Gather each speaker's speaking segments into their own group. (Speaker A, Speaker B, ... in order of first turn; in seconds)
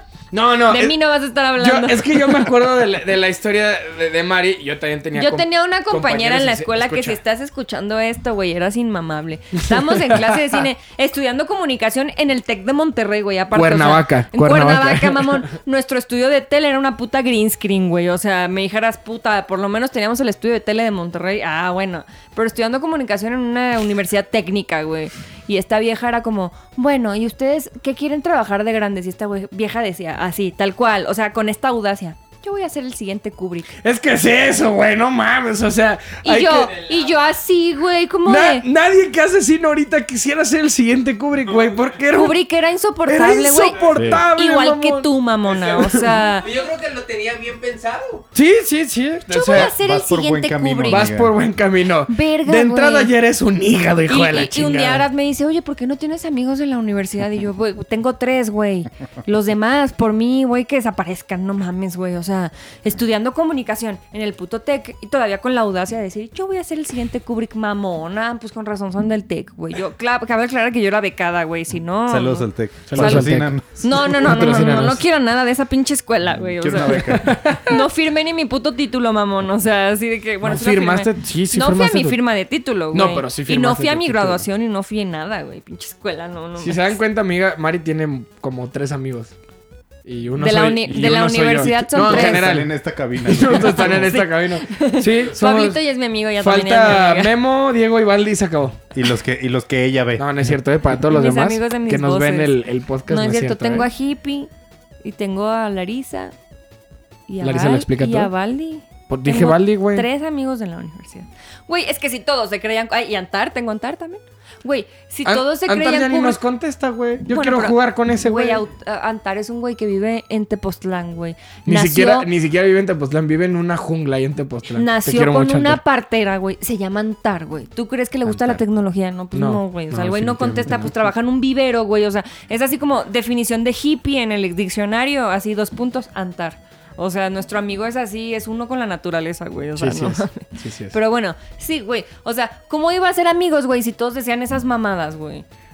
Speaker A: 0.3-1.0, 1.6-7.2, 9.9-10.4, 13.5-15.5, 33.8-36.7, 38.2-42.4, 43.1-45.1, 48.3-49.7, 50.9-55.1, 72.9-75.0, 76.9-77.8, 80.4-82.2, 82.9-84.4, 86.6-89.3, 90.1-95.8, 96.4-98.8, 100.2-103.9, 107.4-108.3, 109.1-110.1, 115.2-118.6, 121.7-125.8, 128.3-128.6, 129.3-130.9, 139.8-141.0
Speaker B: 0.7-2.4, 5.1-33.7, 36.2-38.6, 42.1-46.5, 49.3-51.1, 52.1-53.1, 54.1-87.0, 90.4-92.5, 93.5-97.3, 101.1-104.5, 105.0-106.3, 107.3-116.4, 117.3-122.3, 124.7-145.4
Speaker C: 36.7-37.1, 43.7-44.1, 45.5-48.3
Speaker D: 43.9-44.2, 49.5-51.3, 72.1-74.7, 76.3-77.4, 91.9-94.1, 98.9-100.5